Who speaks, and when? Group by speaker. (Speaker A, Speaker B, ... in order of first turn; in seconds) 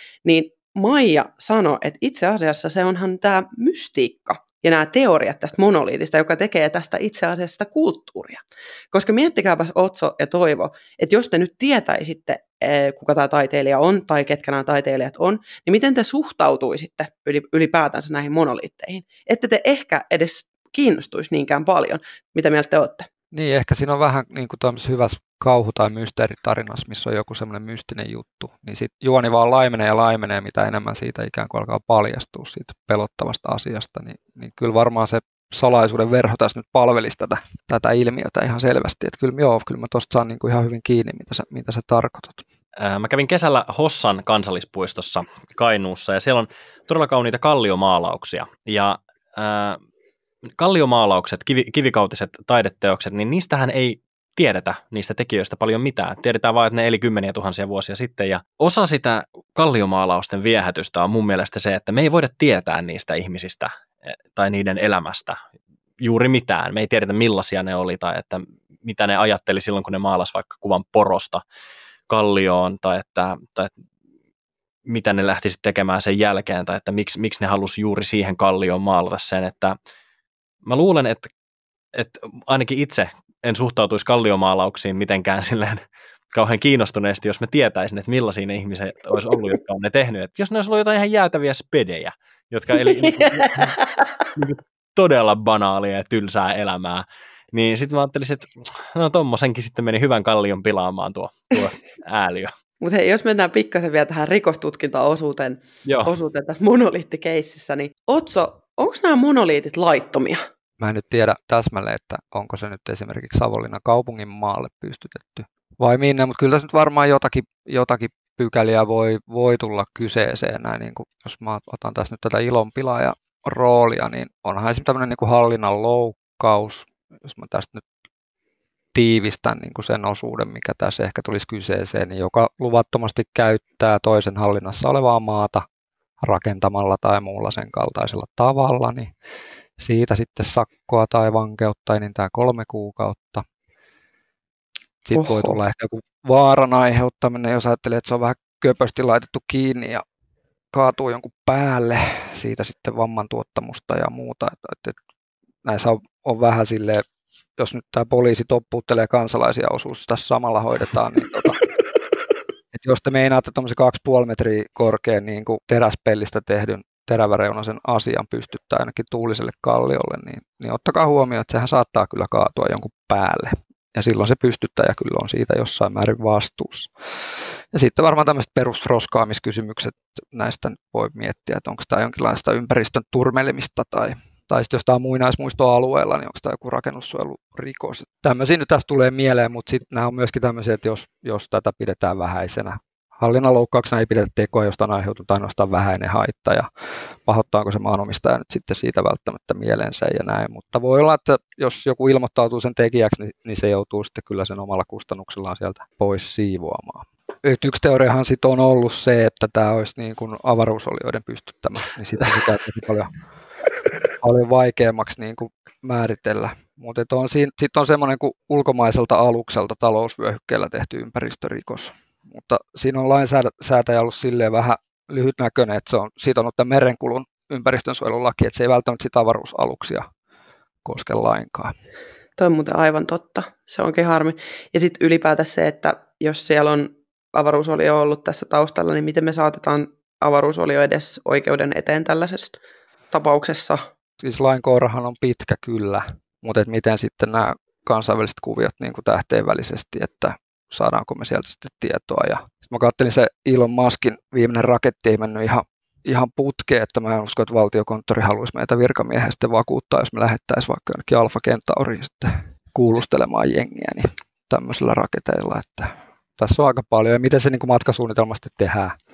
Speaker A: 0.2-23.1, 102.8-110.4, 145.1-145.5, 232.4-242.6, 243.1-243.8
Speaker B: 23.3-42.4, 110.8-127.8, 128.9-135.6, 136.2-139.1, 139.8-143.4, 145.1-150.0, 150.7-154.9, 155.6-157.0, 157.6-161.6, 162.7-176.9, 177.7-196.7, 197.2-213.1, 214.2-230.0, 230.8-231.7, 244.2-268.9
Speaker C: 42.8-49.8, 50.6-65.3, 66.0-71.4, 72.1-73.7, 74.9-79.7, 80.6-81.3, 81.9-85.8, 86.3-93.8, 94.3-102.5, 105.8-106.1